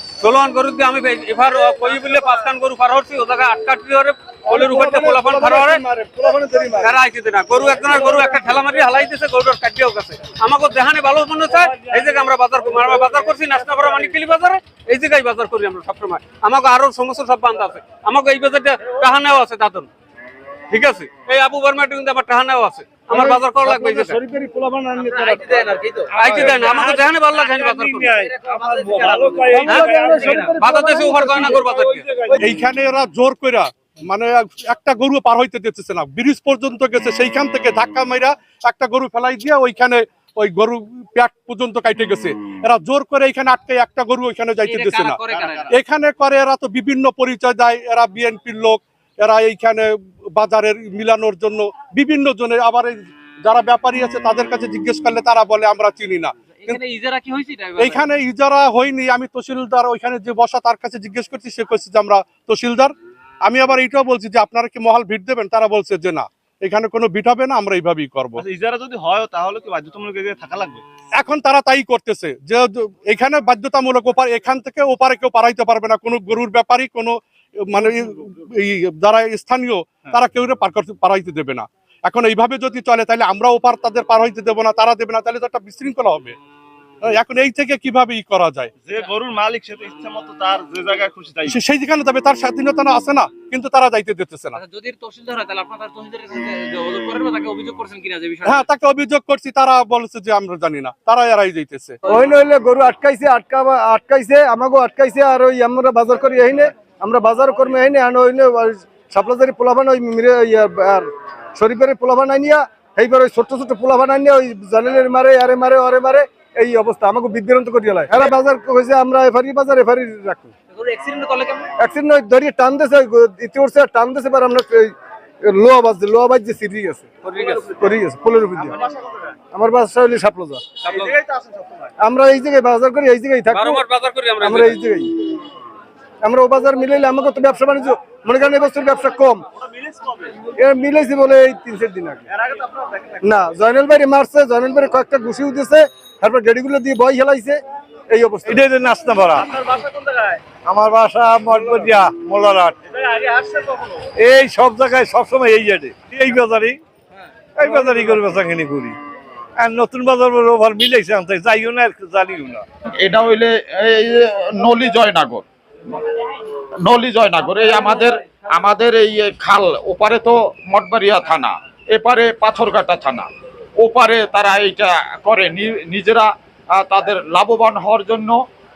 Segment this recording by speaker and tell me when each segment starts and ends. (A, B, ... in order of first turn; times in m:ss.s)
0:00.2-0:05.8 A
0:04.5-0:07.0 B
0:06.8-0:19.9 A
0:07.6-0:08.7 B
0:20.7-0:24.2 A
0:23.1-0:25.8 B
0:25.0-0:27.6 C
0:26.1-0:28.2 A
0:26.2-0:30.6 D
0:26.3-0:26.6 E
0:28.1-0:29.4 C
0:29.5-0:31.7 B
0:29.6-0:30.0 A
0:30.5-0:32.4 A
0:31.2-0:32.4 D
0:32.4-0:56.8 E
0:44.6-0:45.7 C
0:45.3-0:45.7 F
0:56.6-0:58.1 C
0:57.8-1:02.9 E
1:03.5-1:08.4 E
1:08.4-1:10.8 F
1:11.1-1:26.4 E
1:27.0-1:28.7 E
1:28.8-1:31.6 F
1:31.5-1:34.6 E
1:34.5-1:38.6 C
1:38.4-1:42.0 E
1:42.1-2:00.5 B
2:00.7-2:01.7 C
2:01.8-2:08.8 B
2:07.2-2:07.7 A
2:08.7-2:09.3 F
2:09.5-2:10.6 B
2:10.9-2:11.2 A
2:10.9-2:11.9 F
2:12.0-2:13.8 B
2:13.5-2:14.8 A
2:14.4-2:15.2 B
2:16.2-2:19.4 B
2:19.6-2:20.4 F
2:20.6-2:22.3 B
2:22.3-2:23.2 F
2:23.2-2:28.6 B
2:28.5-2:29.5 D
2:29.4-2:30.4 F
2:30.6-2:32.8 D
2:31.5-2:31.9 F
2:32.9-2:34.0 F
2:34.2-2:36.8 D
2:37.6-2:39.0 D
2:39.6-2:42.6 D
2:43.0-2:45.4 G
2:46.8-2:58.4 G